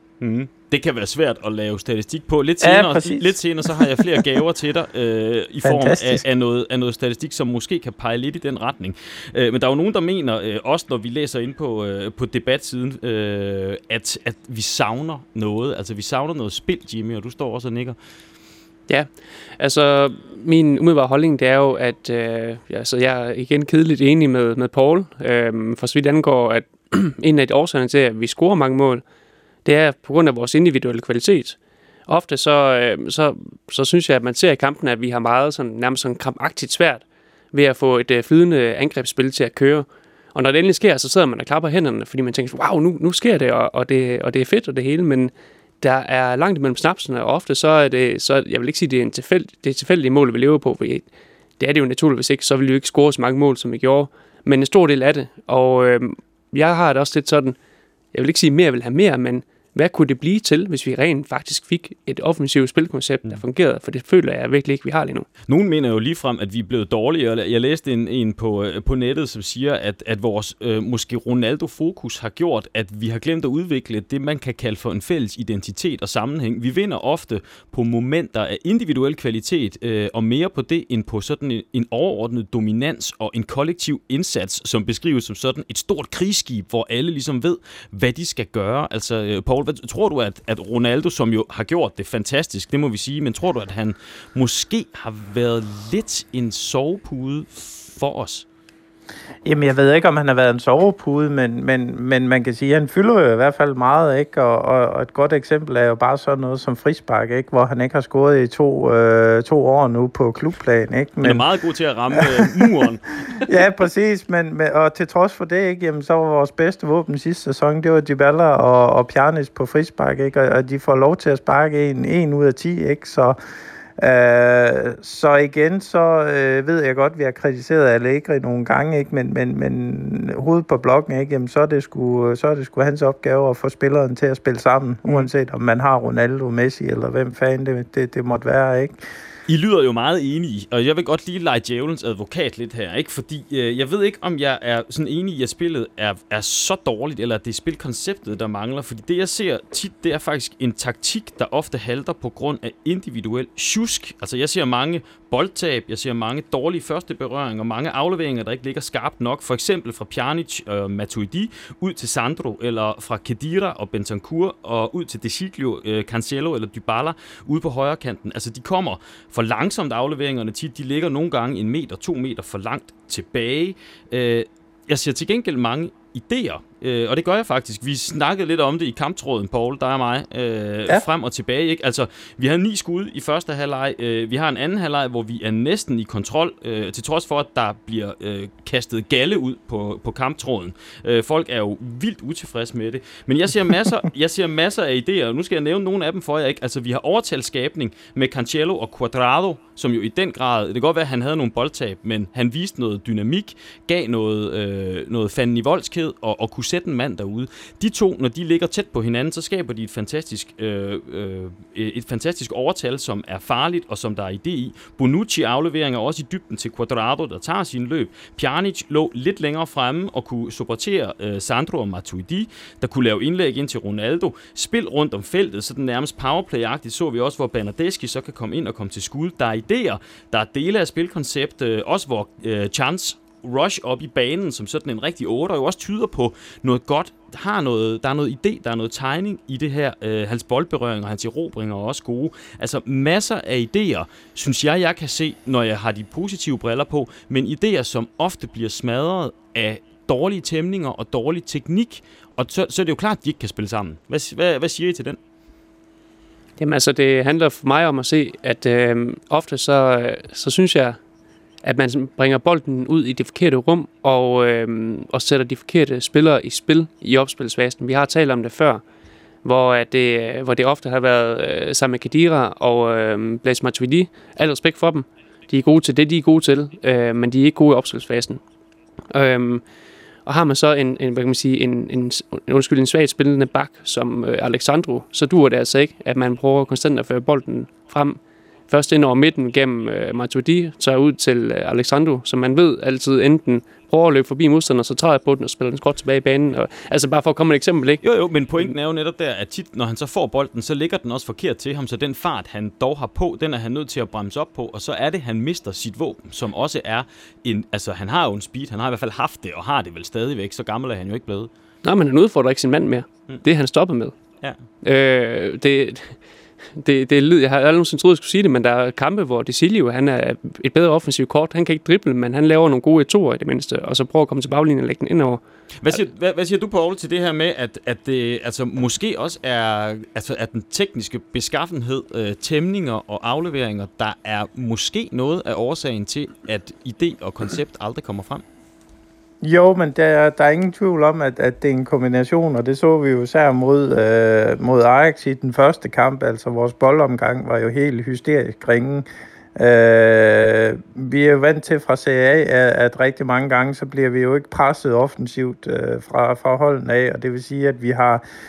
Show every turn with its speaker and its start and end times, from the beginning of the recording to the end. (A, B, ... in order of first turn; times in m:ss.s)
0:00.2-0:18.0 A
0:02.6-0:04.2 B
0:05.6-0:06.2 B
0:18.9-0:29.0 C
0:29.6-0:31.6 C
0:32.1-0:51.0 C
0:51.6-0:57.5 C
0:58.1-1:05.3 C
1:05.5-1:38.4 A
1:39.4-1:51.4 B
1:51.2-1:53.5 A
1:52.1-1:52.7 B
1:53.4-2:03.4 B
2:04.0-2:19.0 B
2:19.5-4:15.2 A
4:16.6-4:21.0 C
4:21.6-4:28.8 C
4:29.4-4:38.4 C
4:39.1-4:39.6 C
4:40.2-4:58.0 C
4:58.0-5:11.5 A
5:11.8-5:14.1 C
5:14.8-5:16.2 C
5:16.8-5:25.4 C
5:25.8-5:38.4 A
5:39.4-5:58.2 B